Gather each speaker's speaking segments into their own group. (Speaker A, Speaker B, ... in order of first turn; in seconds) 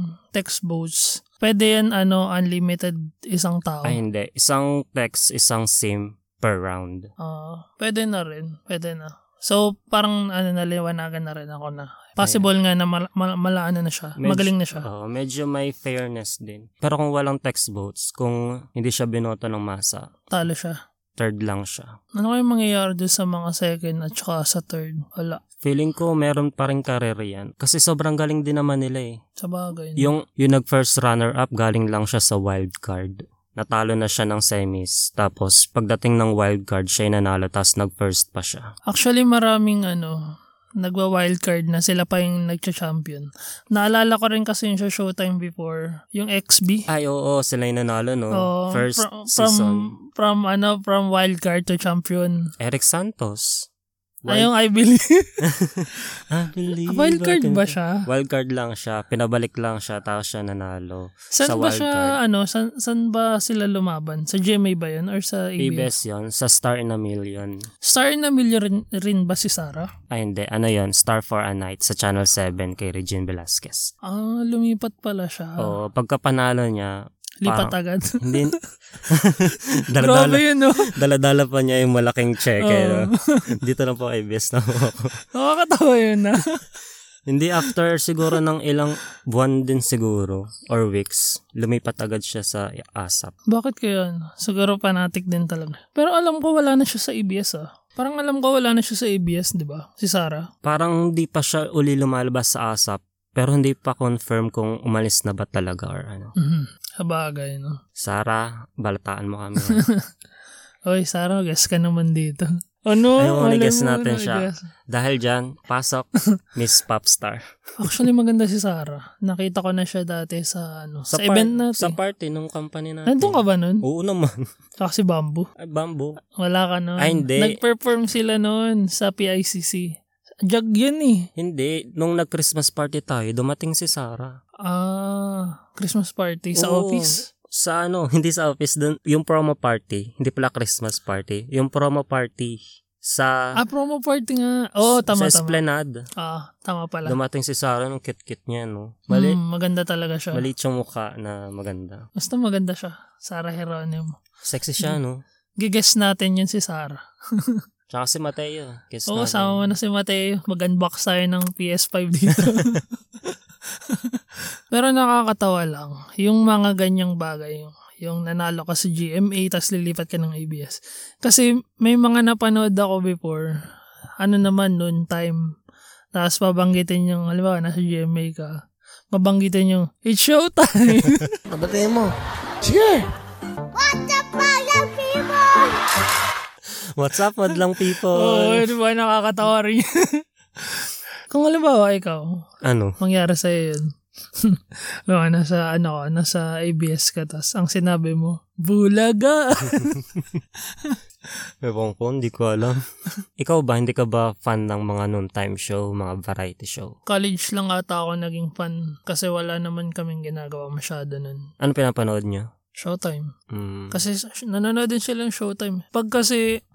Speaker A: 0.3-4.0, 7.2-14.8, 20.3-20.8, 22.2-25.4, 29.4-30.1, 38.9-40.1, 40.8-46.9, 48.4-52.3, 54.3-55.4, 56.9-58.0, 61.3-65.9, 67.8-69.9, 74.1-75.7, 77.4-78.5, 80.0-80.9, 82.6-83.4, 85.3-86.6, 93.5-100.5, 106.4-107.8, 110.9-114.6, 117.8-121.9, 123.1-123.8, 124.8-125.5, 126.4-129.9, 130.5-131.3, 134.6-137.2, 143.6-145.6, 146.2-147.2, 149.1-150.4, 152.2-154.2, 155.6-157.6, 159.1-163.3, 163.9-164.2, 164.7-173.5, 174.2-175.4, 176.1-178.5, 179.1-181.3, 188.1-192.4, 193.0-193.8, 194.4-200.0, 207.1-211.4, 212.8-213.3, 213.9-216.5
Speaker B: 3.8-7.1, 12.2-12.4, 14.2-20.1, 21.2-21.9, 25.6-29.2, 30.0-38.7, 46.9-49.9, 52.6-53.7, 54.2-54.5, 55.4-62.2, 65.6-67.7, 70.1-73.9, 75.6-85.1, 87.3-93.3, 100.6-106.3, 108.0-109.8, 113.2-117.4, 121.1-124.5, 125.6-126.2, 127.0-127.6, 131.3-134.4, 136.5-143.4, 144.8-146.0, 147.1-149.4, 150.3-152.1, 154.4-155.2, 157.9-159.6, 186.9-188.7, 192.6-192.9, 201.6-202.8, 203.4-206.9, 211.6-212.5, 213.5-214.0
Speaker C: 181.5-182.1, 182.6-183.1, 183.7-185.8